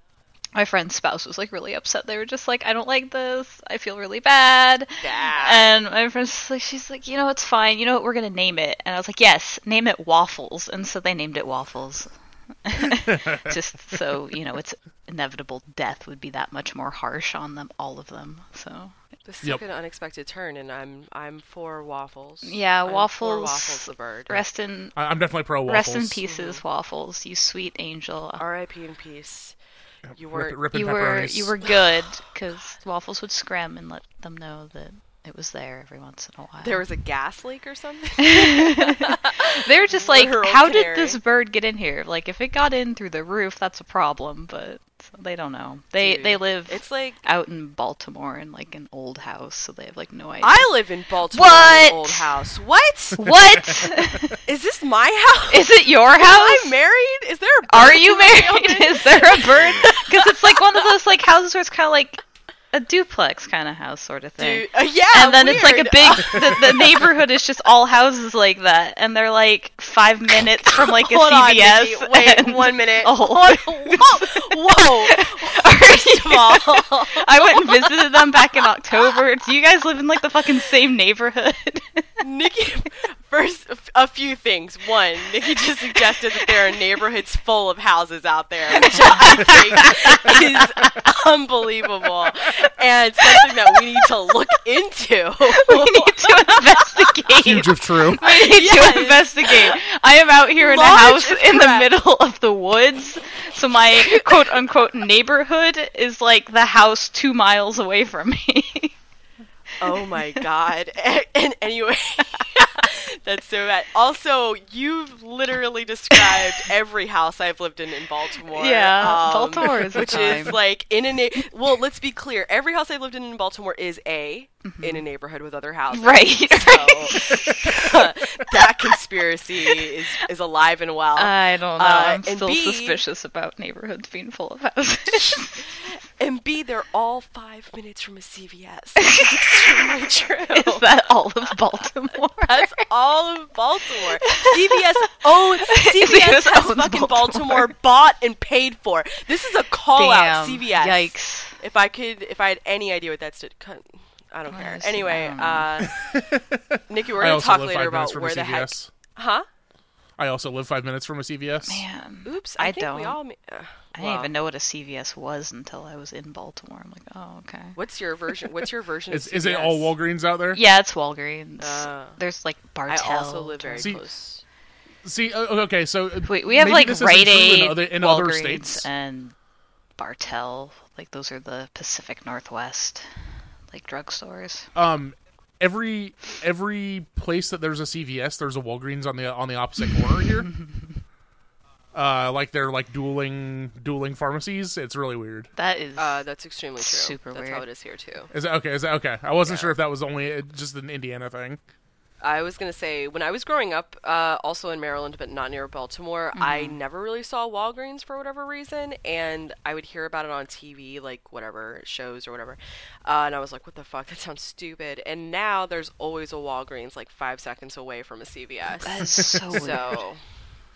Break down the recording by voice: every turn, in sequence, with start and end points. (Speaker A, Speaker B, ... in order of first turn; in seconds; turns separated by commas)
Speaker A: 0.6-12.1, Speaker B: 5.0-5.7, Speaker A: 12.6-18.9, Speaker C: 13.1-13.5, Speaker B: 19.2-24.4, Speaker A: 22.4-25.0, Speaker C: 24.9-26.2, Speaker A: 25.6-28.4, Speaker B: 26.3-26.6, Speaker B: 28.4-29.6, Speaker C: 30.1-31.6, Speaker B: 30.1-30.6, Speaker A: 30.7-36.9, Speaker B: 36.6-41.2, Speaker A: 38.2-50.7, Speaker B: 46.0-47.2, Speaker B: 50.4-53.3, Speaker A: 51.3-52.3, Speaker A: 53.2-54.4, Speaker C: 53.3-53.7, Speaker B: 54.4-60.8, Speaker A: 55.5-56.7, Speaker A: 57.7-82.1, Speaker B: 64.4-67.1, Speaker B: 70.7-78.6, Speaker B: 82.2-97.1, Speaker A: 88.8-90.4, Speaker A: 93.4-94.1, Speaker A: 95.5-108.9, Speaker C: 97.4-98.2, Speaker B: 98.2-99.8, Speaker B: 100.6-101.9, Speaker B: 103.9-104.5, Speaker B: 109.8-133.0, Speaker A: 116.2-116.5, Speaker A: 118.5-120.6, Speaker A: 124.6-125.0, Speaker A: 125.9-127.8, Speaker A: 131.2-135.8, Speaker B: 135.3-140.9, Speaker A: 139.1-139.9, Speaker A: 140.5-142.8, Speaker B: 142.5-156.2, Speaker A: 144.0-147.7, Speaker A: 149.9-151.6, Speaker A: 154.5-155.8, Speaker C: 156.0-158.9, Speaker B: 156.9-159.4, Speaker C: 160.2-161.8, Speaker A: 161.7-163.2, Speaker B: 162.2-164.3, Speaker A: 163.9-167.8, Speaker B: 167.8-169.9, Speaker C: 169.1-170.6, Speaker A: 170.5-173.9, Speaker B: 171.6-172.2, Speaker B: 172.9-174.4, Speaker C: 175.0-178.9, Speaker A: 176.2-179.3, Speaker A: 180.0-184.7, Speaker C: 184.8-190.6, Speaker C: 191.9-195.5, Speaker A: 195.6-196.3, Speaker B: 196.0-198.3, Speaker A: 196.8-197.7, Speaker C: 198.3-201.6, Speaker B: 199.4-199.7, Speaker B: 202.2-220.2, Speaker A: 206.3-206.8, Speaker A: 218.8-220.0